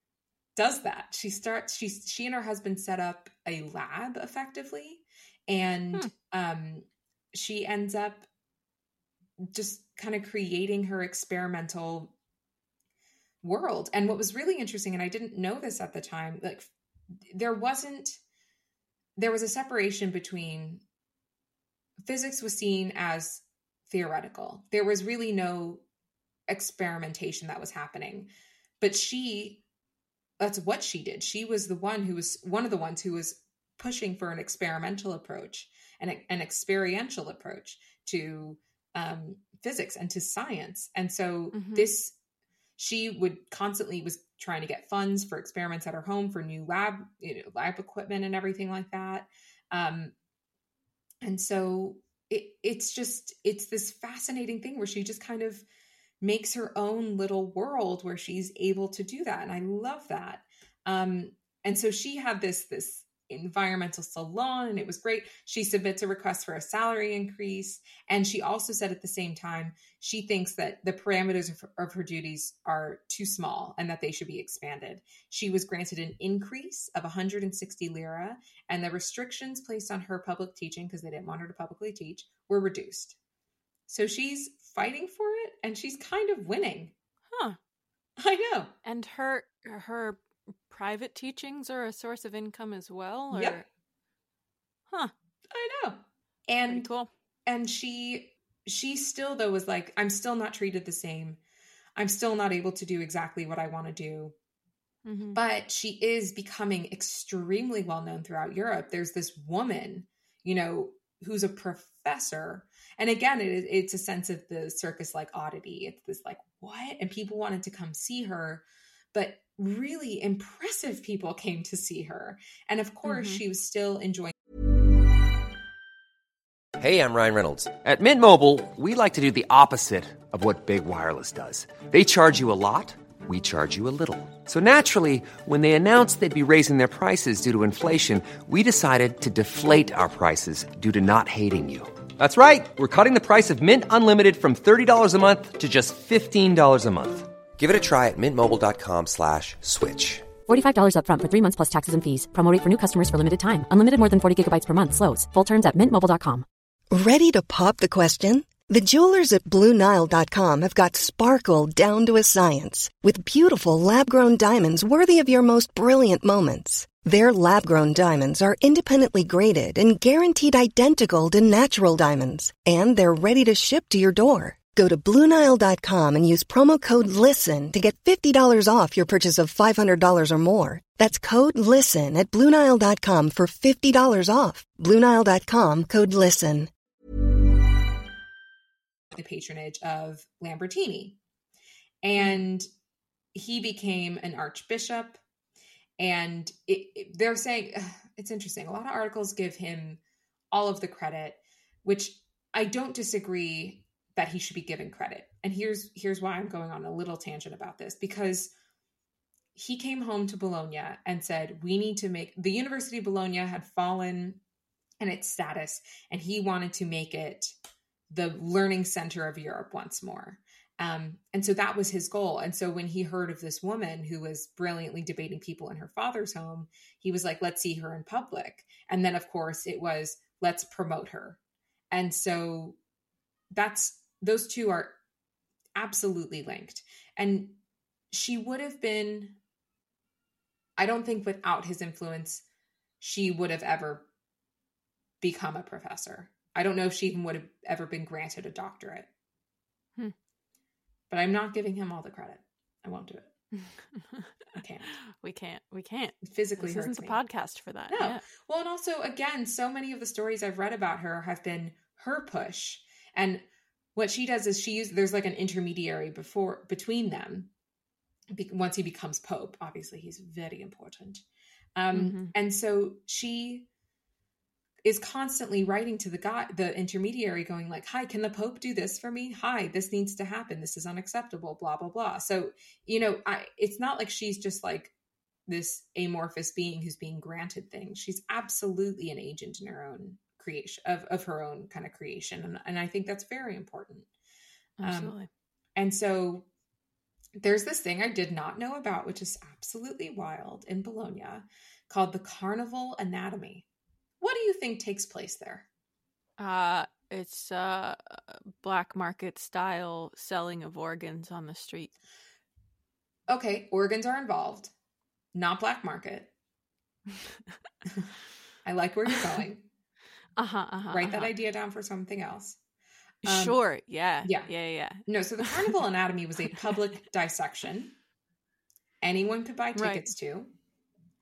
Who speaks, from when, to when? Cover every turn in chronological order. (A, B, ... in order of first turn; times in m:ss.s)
0:00.6-0:08.3 A
0:09.4-0:12.1 A
0:13.4-0:18.2 A
0:19.2-0:20.8 A
0:22.0-0:25.8 A
0:26.5-0:28.3 A
0:28.8-0:29.6 A
0:30.4-0:42.2 A
0:41.5-0:41.9 B
0:42.8-0:50.1 A
0:51.2-0:55.6 A
0:56.2-1:23.2 A
1:23.9-1:26.9 A
1:27.3-1:27.6 B
1:28.2-1:28.7 A
1:28.8-1:33.6 B
1:33.3-1:33.6 A
1:35.5-1:36.9 A
1:36.7-1:37.1 B
1:37.4-1:41.4 A
1:42.0-1:44.3 A
1:45.0-1:45.4 B
1:45.3-2:04.3 A
2:03.0-2:03.4 B
2:06.8-2:30.3 C
2:30.4-2:36.4 D
2:36.9-3:06.7 E
3:09.1-3:11.2 A
3:12.0-3:12.7 A
3:12.2-3:12.4 B
3:13.3-3:15.2 A
3:16.0-3:20.0 A
3:20.5-3:28.5 A
3:29.5-3:34.4 A
3:35.0-3:37.6 A
3:38.1-3:51.4 A
3:51.9-3:52.8 A
3:53.5-3:55.0 A
3:55.7-3:57.6 A
3:58.1-3:59.4 A
4:00.8-4:02.4 A
4:03.0-4:04.0 A
4:05.2-4:09.1 A
4:11.1-4:13.3 A
4:13.5-4:14.3 B
4:14.5-4:14.9 A
4:14.9-4:18.2 B
4:16.2-4:17.2 A
4:17.9-4:27.5 A
4:28.3-4:31.2 A
4:31.8-4:33.7 A
4:31.9-4:32.3 B
4:34.8-4:44.9 A
4:45.5-4:54.1 A
4:54.8-4:55.3 B
4:54.8-4:55.1 A
4:55.8-4:56.5 A
4:57.4-5:03.6 A
5:04.2-5:05.6 A
5:06.4-5:11.9 B
5:13.3-5:14.7 A
5:15.3-5:16.3 A
5:18.6-5:19.6 A
5:20.4-5:21.3 B
5:20.9-5:22.6 A
5:23.2-5:23.6 A
5:23.2-5:25.7 B
5:24.2-5:24.5 A
5:25.0-5:27.9 A
5:29.0-5:30.5 A
5:29.7-5:30.1 B